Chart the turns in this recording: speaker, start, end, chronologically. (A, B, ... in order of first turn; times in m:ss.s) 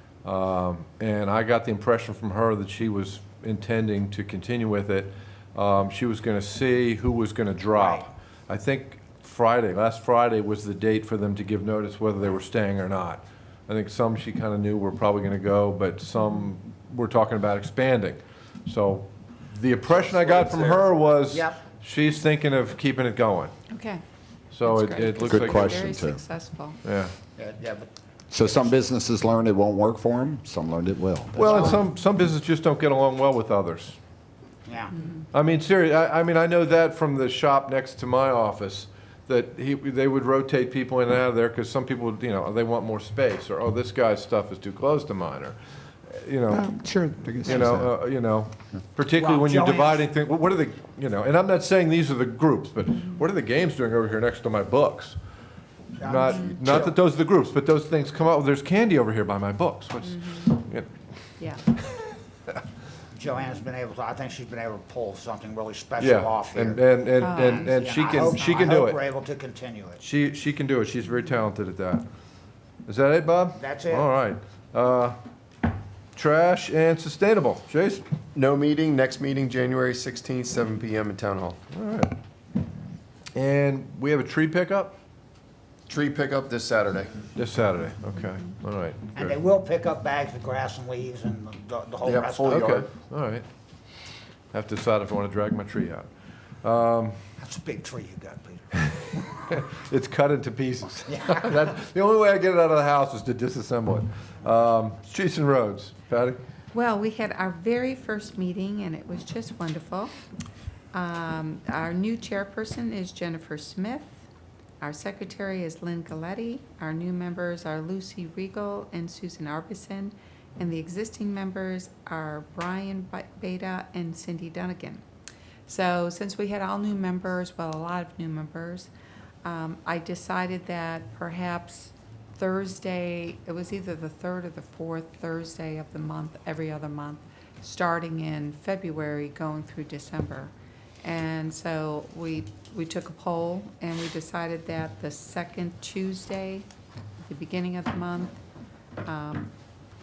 0:00.2-0:23.5 A
0:07.7-0:08.1 B
0:20.4-0:20.9 C
0:21.3-0:21.6 B
0:23.7-0:24.0 D
0:24.5-0:25.8 A
0:24.6-0:26.8 D
0:25.1-0:26.2 E
0:26.8-0:27.1 A
0:27.4-0:28.9 B
0:28.3-0:31.8 E
0:31.4-0:34.0 A
0:31.4-0:31.8 B
0:34.6-0:34.9 B
0:34.9-0:35.2 D
0:35.3-0:46.8 A
0:46.5-0:47.9 E
0:47.3-0:55.2 A
0:49.1-0:50.1 B
0:56.0-0:56.9 B
0:56.0-1:00.9 A
0:56.3-0:56.6 D
1:00.1-1:00.4 D
1:01.4-1:01.6 D
1:03.1-1:10.0 B
1:06.0-1:09.0 A
1:07.2-1:08.6 D
1:10.0-1:12.0 A
1:12.8-1:15.2 A
1:13.5-1:14.1 B
1:16.1-1:18.0 A
1:18.3-1:21.6 C
1:21.7-1:22.2 A
1:23.3-1:25.0 A
1:25.9-1:27.1 C
1:27.3-1:29.3 A
1:29.1-1:32.8 B
1:32.0-1:32.9 C
1:32.4-1:33.4 A
1:34.5-1:36.1 A
1:36.6-1:37.2 A
1:37.4-1:39.3 B
1:38.7-1:46.4 A
1:41.1-1:41.5 B
1:46.7-1:50.1 D
1:50.9-1:54.2 D
1:54.8-2:05.0 D
2:05.7-2:08.9 D
2:09.4-2:20.5 D
2:21.0-2:26.6 D
2:27.3-2:28.4 D
2:29.0-2:29.5 D